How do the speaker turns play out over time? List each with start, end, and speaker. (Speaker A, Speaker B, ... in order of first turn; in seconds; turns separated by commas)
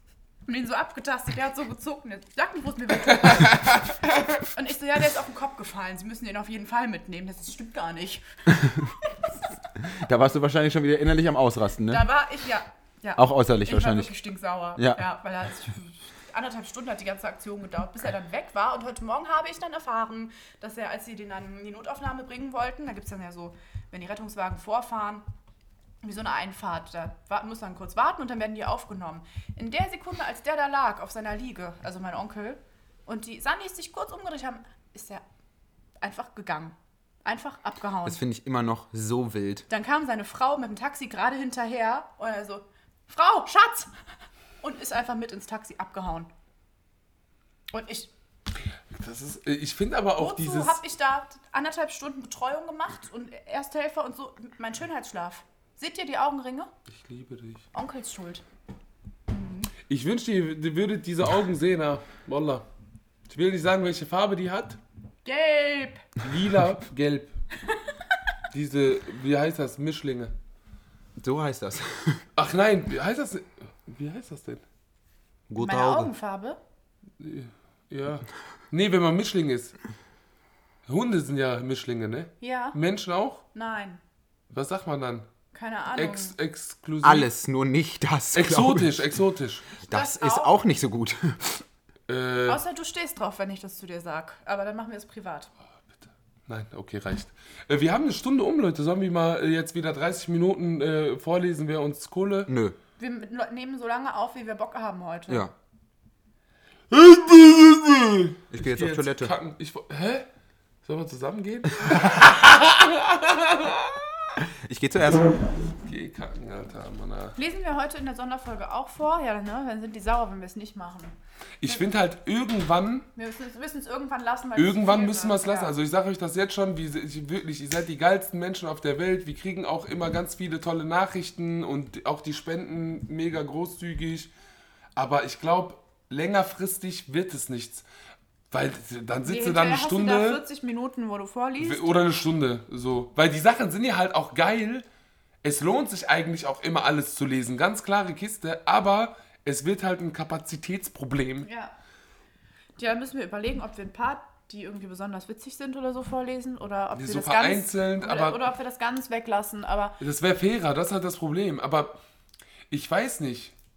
Speaker A: 0.5-3.8, Speaker A: 4.4-9.2, Speaker B: 9.8-12.1, Speaker A: 11.9-25.2, Speaker B: 13.2-14.1, Speaker A: 26.0-35.2, Speaker A: 36.0-38.2, Speaker B: 38.0-39.6, Speaker A: 39.7-43.9, Speaker A: 44.6-46.3, Speaker A: 47.7-48.1, Speaker C: 48.9-50.8, Speaker A: 50.2-56.7, Speaker C: 56.9-57.6, Speaker A: 57.7-58.4, Speaker A: 59.3-59.7, Speaker C: 59.9-62.6, Speaker C: 63.3-64.8, Speaker A: 65.2-66.0, Speaker C: 66.2-67.3, Speaker C: 68.5-70.3, Speaker B: 71.2-72.2, Speaker C: 72.3-74.6, Speaker B: 75.5-76.1, Speaker A: 75.6-76.6, Speaker C: 77.2-79.7, Speaker C: 80.9-83.4, Speaker A: 82.4-82.8, Speaker A: 83.5-84.0, Speaker C: 84.5-85.3, Speaker A: 85.5-86.3, Speaker C: 85.9-87.3, Speaker B: 87.0-89.0, Speaker C: 88.3-89.6, Speaker A: 89.8-90.5, Speaker B: 89.9-91.6, Speaker C: 92.1-92.6, Speaker A: 92.5-95.5, Speaker C: 96.5-102.5, Speaker B: 102.5-102.8, Speaker A: 103.0-105.5, Speaker C: 106.9-110.2, Speaker B: 108.5-109.3, Speaker C: 110.8-114.0, Speaker B: 114.6-115.5, Speaker C: 115.8-117.3, Speaker A: 117.3-121.1, Speaker C: 121.6-123.1, Speaker A: 123.2-125.7, Speaker C: 124.5-134.3, Speaker C: 134.9-137.8, Speaker C: 138.5-140.4, Speaker A: 139.2-141.9, Speaker C: 141.6-144.8, Speaker C: 145.4-151.5, Speaker A: 151.4-151.7, Speaker A: 152.8-160.0, Speaker C: 156.9-158.4, Speaker C: 160.0-162.0, Speaker C: 162.7-163.5